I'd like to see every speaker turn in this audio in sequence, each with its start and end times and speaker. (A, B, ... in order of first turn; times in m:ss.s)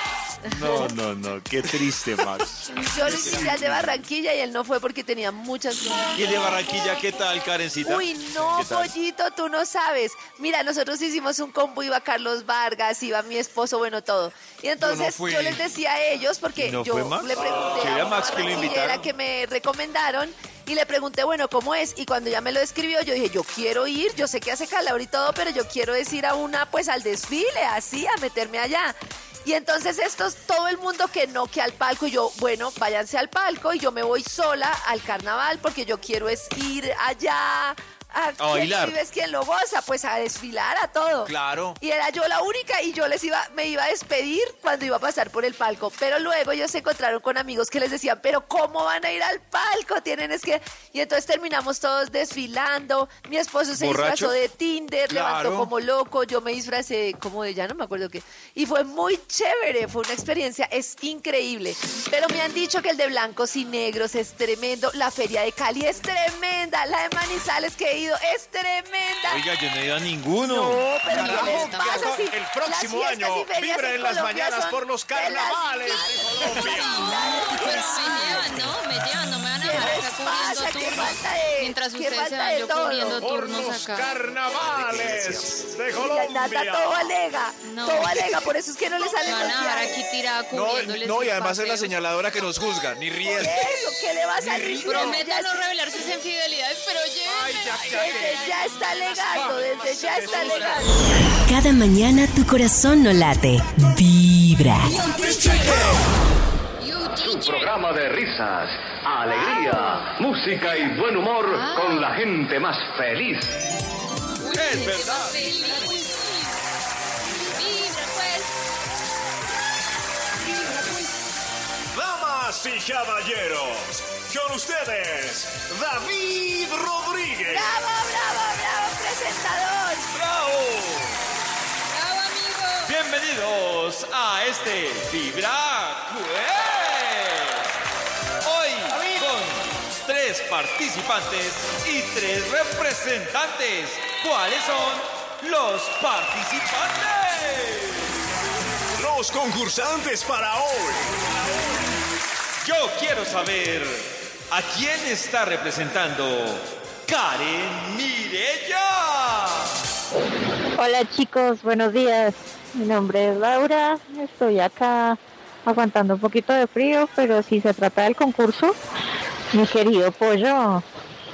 0:00.4-0:02.7 A
0:02.8-0:06.2 B
0:03.0-0:04.0 C
0:03.3-0:03.5 A
0:06.1-0:08.9 A
0:07.8-1:09.4 B
0:14.8-0:15.6 C
0:16.6-0:19.1 A
0:38.4-0:39.0 A
0:41.2-0:41.8 C
0:53.7-0:54.4 A
0:55.1-0:55.7 C
1:09.2-1:10.8 A
1:10.5-1:18.6 B
1:11.1-1:18.5 D
1:11.1-1:12.1 E
1:15.8-1:24.1 E
1:19.6-1:23.2 B
1:19.7-1:20.0 D
1:23.2-1:27.1 D
1:24.5-1:25.7 C
1:25.9-1:30.0 B
1:27.6-1:28.3 E
1:29.0-1:31.9 E
1:30.5-1:33.8 C
1:33.2-1:35.6 B
1:34.4-1:35.1 D
1:34.4-1:35.1 C
1:34.8-1:38.9 E
1:37.3-1:40.9 D
1:37.9-1:40.9 B
1:41.4-1:45.0 F
1:44.9-1:46.0 D
1:46.8-1:47.7 E
1:47.1-1:53.5 G
1:49.7-1:50.0 E
1:51.5-1:52.1 E
1:54.4-1:56.5 E
1:54.5-1:55.4 A
1:57.5-1:58.5 E
2:00.5-2:01.0 D
2:01.9-2:07.7 D
2:07.5-2:10.1 B
2:10.1-2:11.2 A
2:11.9-2:12.9 E
2:12.8-2:17.7 A
2:18.4-2:28.2 A
2:29.0-2:31.2 D
2:32.6-2:39.8 A
2:40.8-2:48.8 H
2:49.5-2:50.8 H